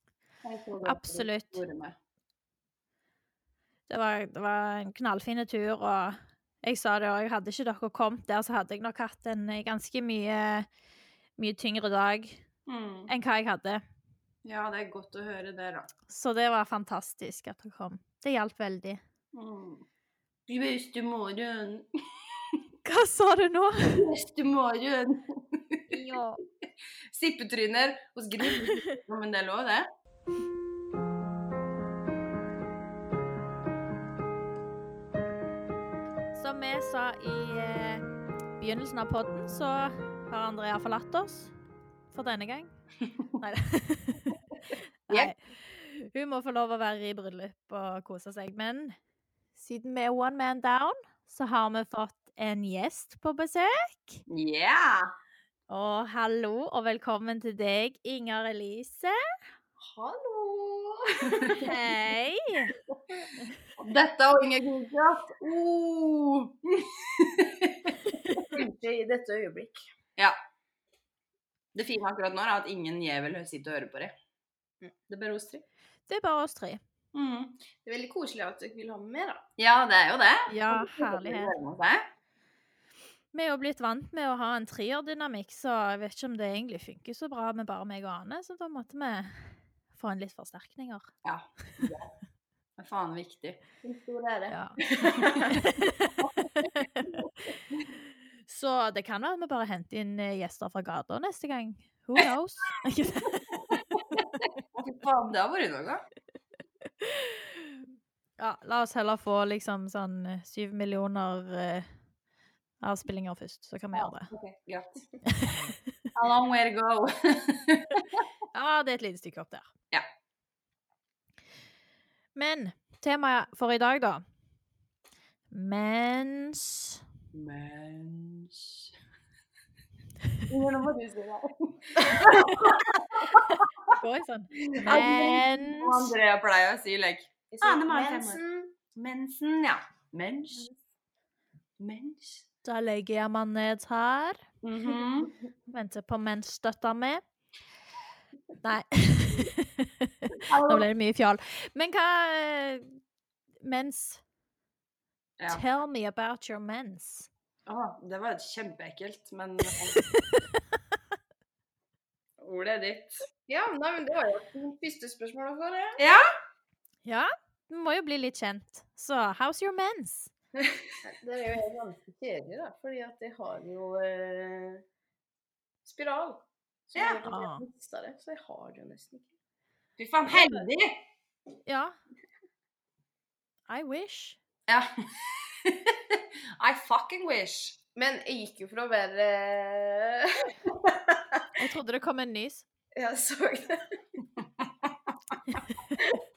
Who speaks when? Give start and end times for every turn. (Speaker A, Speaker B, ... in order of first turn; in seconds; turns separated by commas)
Speaker A: 0.4-1.9, Speaker B: 0.8-1.6, Speaker B: 3.9-10.7, Speaker B: 11.4-12.4, Speaker A: 12.7-13.1, Speaker B: 13.1-13.8, Speaker A: 14.4-15.9, Speaker B: 16.1-19.0, Speaker A: 19.3-19.8, Speaker A: 20.5-22.6, Speaker B: 22.8-24.1, Speaker A: 23.9-26.0, Speaker B: 25.9-26.4, Speaker A: 27.1-29.9, Speaker B: 28.4-29.0, Speaker B: 36.3-38.0, Speaker B: 38.6-41.5, Speaker B: 42.1-42.7, Speaker B: 43.4-44.4, Speaker B: 45.1-49.0, Speaker B: 49.5-54.2, Speaker A: 54.3-55.1, Speaker B: 55.7-59.2, Speaker C: 59.8-61.7, Speaker A: 61.3-61.7, Speaker B: 61.5-62.7, Speaker A: 63.8-68.7, Speaker C: 68.5-69.9, Speaker A: 71.7-74.1, Speaker A: 75.1-75.6, Speaker B: 76.1-76.8, Speaker A: 77.1-77.5, Speaker C: 77.8-79.4, Speaker A: 79.6-82.0, Speaker B: 80.5-81.5, Speaker B: 83.3-91.1, Speaker A: 91.2-92.1, Speaker A: 92.8-93.6, Speaker C: 93.8-95.5, Speaker B: 94.5-94.8, Speaker A: 95.0-95.7, Speaker B: 95.4-97.2, Speaker B: 98.5-103.7, Speaker A: 103.7-106.0, Speaker B: 107.0-107.7, Speaker B: 108.4-111.9, Speaker B: 112.8-114.3, Speaker A: 113.9-115.0, Speaker B: 115.2-115.8, Speaker A: 116.1-118.3, Speaker B: 118.5-119.7, Speaker B: 122.3-124.2, Speaker B: 125.5-127.0, Speaker A: 127.3-128.9, Speaker A: 130.5-133.9, Speaker B: 133.5-136.1, Speaker A: 134.5-138.4, Speaker C: 137.5-138.7, Speaker A: 138.9-140.7, Speaker A: 141.8-142.4, Speaker B: 142.6-144.4, Speaker A: 144.6-145.3, Speaker B: 145.7-147.2, Speaker B: 148.6-153.0, Speaker A: 150.4-150.9, Speaker B: 153.6-154.2, Speaker B: 155.5-157.3, Speaker A: 157.7-160.0, Speaker B: 159.9-160.6, Speaker A: 162.4-163.2, Speaker C: 163.5-166.0, Speaker A: 166.0-166.2, Speaker B: 167.0-170.3, Speaker C: 171.0-174.8, Speaker C: 175.8-179.3, Speaker A: 176.9-177.2, Speaker B: 177.2-177.6, Speaker A: 180.0-181.0, Speaker B: 181.7-181.9, Speaker B: 183.7-184.4, Speaker A: 184.7-187.8, Speaker C: 187.9-191.4, Speaker B: 191.6-192.7, Speaker C: 192.9-194.0